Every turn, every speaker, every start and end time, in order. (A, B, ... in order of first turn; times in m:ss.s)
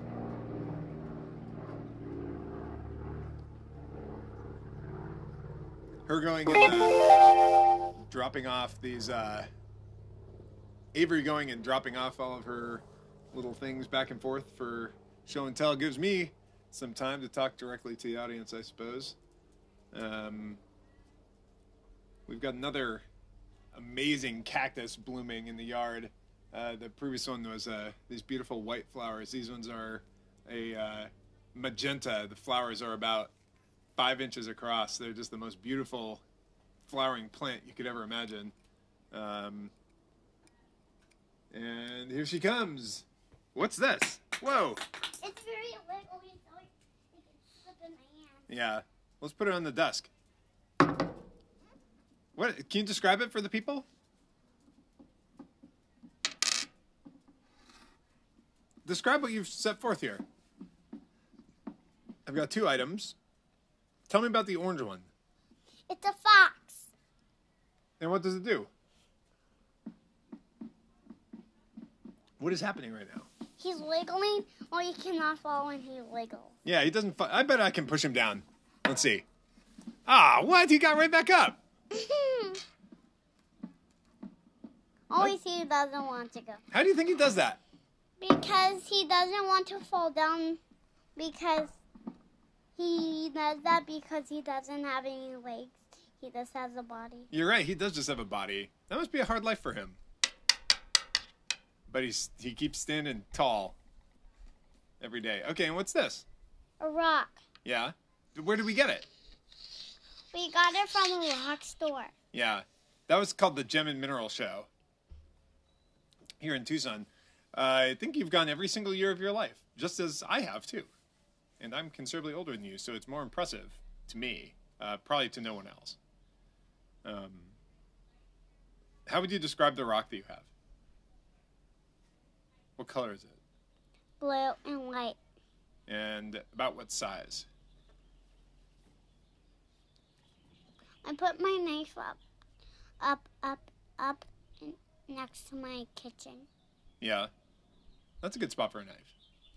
0:06.1-0:07.1 A
0:08.1-0:09.5 A
0:10.9-0:19.2 A
0:19.9-0:20.6 A
0:22.3-0:23.0 A
0:23.7-0:33.3 A
0:34.0-0:36.2 A
0:36.8-0:38.5 A
0:39.1-0:39.7 A
0:41.5-0:44.8 A
0:45.2-0:48.5 B
0:48.5-0:50.1 A
0:52.4-0:53.9 A
0:58.8-1:00.2 A
1:02.3-1:03.2 A
1:04.1-1:05.1 A
1:05.9-1:06.9 B
1:08.0-1:08.7 A
1:12.4-1:13.3 A
1:13.6-1:16.6 B
1:16.6-1:19.2 A
1:20.1-1:21.6 A
1:21.9-1:22.6 B
1:25.1-1:26.6 B
1:26.7-1:27.6 A
1:28.2-1:30.6 B
1:31.2-1:31.8 B
1:32.8-1:37.3 B
1:37.3-1:40.0 A
1:41.9-1:43.8 A
1:45.0-1:46.3 A
1:46.8-1:47.4 B
1:47.6-1:49.1 A
1:50.3-1:52.1 B
1:52.3-1:54.7 A
1:56.4-2:00.9 A
2:01.6-2:06.0 A
2:07.0-2:07.6 A
2:09.1-2:10.5 A
2:12.8-2:13.4 A
2:14.2-2:15.2 B
2:15.9-2:17.5 A
2:21.0-2:22.2 B
2:23.0-2:26.5 B
2:27.0-2:27.3 A
2:28.2-2:29.1 A